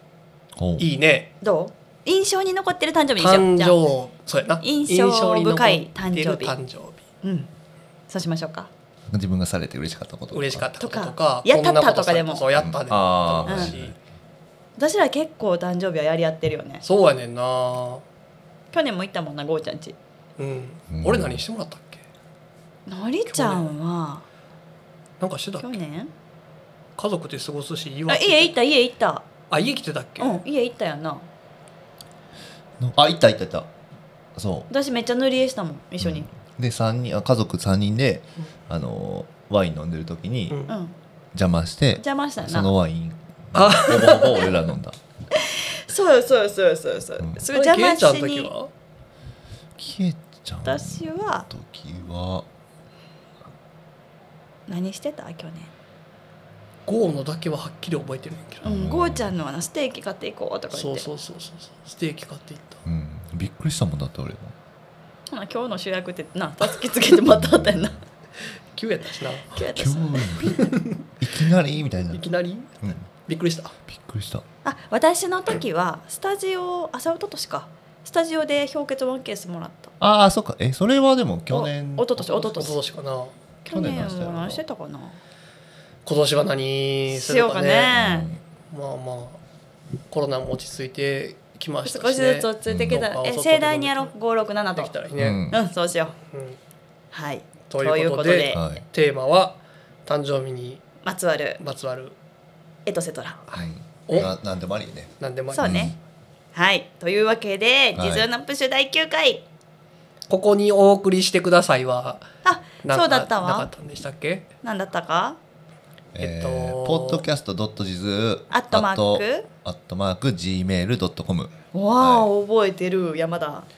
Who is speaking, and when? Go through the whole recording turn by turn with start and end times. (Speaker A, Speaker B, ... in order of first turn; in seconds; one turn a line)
Speaker A: 0.6-0.8
Speaker B: 0.8-1.3
Speaker C: 1.4-3.8
Speaker B: 3.2-7.0
Speaker C: 4.6-6.5
Speaker C: 7.2-7.5
Speaker C: 8.1-8.7
Speaker A: 9.1-10.7
Speaker B: 10.3-13.9
Speaker C: 10.8-12.4
Speaker A: 12.5-13.9
Speaker C: 13.4-13.7
Speaker C: 14.8-16.8
Speaker B: 16.8-18.0
Speaker C: 18.7-19.9
Speaker B: 20.4-22.0
Speaker A: 20.9-21.4
Speaker C: 22.9-24.2
Speaker B: 23.3-23.7
Speaker B: 25.2-25.7
Speaker C: 25.6-26.1
Speaker B: 27.0-28.5
Speaker C: 28.1-29.3
Speaker B: 29.5-30.4
Speaker C: 30.2-31.2
Speaker A: 32.8-33.7
Speaker A: 34.4-34.7
Speaker C: 34.7-36.3
Speaker A: 36.0-40.6
Speaker B: 40.5-40.7
Speaker C: 40.7-40.9
Speaker A: 41.3-45.0
Speaker C: 42.0-42.7
Speaker B: 43.5-44.6
Speaker C: 45.4-48.5
Speaker B: 47.5-48.7
Speaker A: 49.8-52.5
Speaker C: 50.6-51.5
Speaker C: 54.7-55.7
Speaker B: 56.9-58.6
Speaker A: 58.6-59.3
Speaker C: 58.6-61.0
Speaker B: 60.7-62.8
Speaker A: 62.8-64.5
Speaker C: 65.3-68.0
Speaker A: 67.3-67.9
Speaker B: 68.7-69.5
Speaker C: 69.5-70.5
Speaker A: 69.7-72.2
Speaker B: 70.4-70.9
Speaker B: 72.1-73.7
Speaker A: 73.9-74.4
Speaker C: 74.6-79.9
Speaker A: 80.0-82.1
Speaker C: 81.5-82.8
Speaker B: 82.2-83.3
Speaker C: 83.6-85.2
Speaker A: 83.7-84.6
Speaker B: 86.0-87.9
Speaker C: 87.1-88.3
Speaker A: 87.9-88.4
Speaker B: 88.7-89.4
Speaker B: 90.1-94.1
Speaker C: 91.8-94.9
Speaker A: 92.7-93.0
Speaker B: 94.7-95.4
Speaker A: 95.2-95.6
Speaker C: 95.5-96.2
Speaker B: 96.3-96.6
Speaker C: 97.1-98.7
Speaker B: 97.7-100.8
Speaker A: 98.5-98.8
Speaker C: 101.0-101.6
Speaker B: 101.6-102.1
Speaker C: 102.8-103.4
Speaker B: 103.5-104.3
Speaker A: 103.5-106.0
Speaker B: 105.2-105.9
Speaker C: 105.5-105.9
Speaker C: 106.5-109.4
Speaker A: 108.0-108.3
Speaker B: 110.3-112.2
Speaker C: 112.4-113.7
Speaker B: 112.8-114.5
Speaker C: 114.6-115.4
Speaker A: 116.1-122.3
Speaker B: 116.2-117.2
Speaker C: 118.5-119.5
Speaker C: 121.7-123.7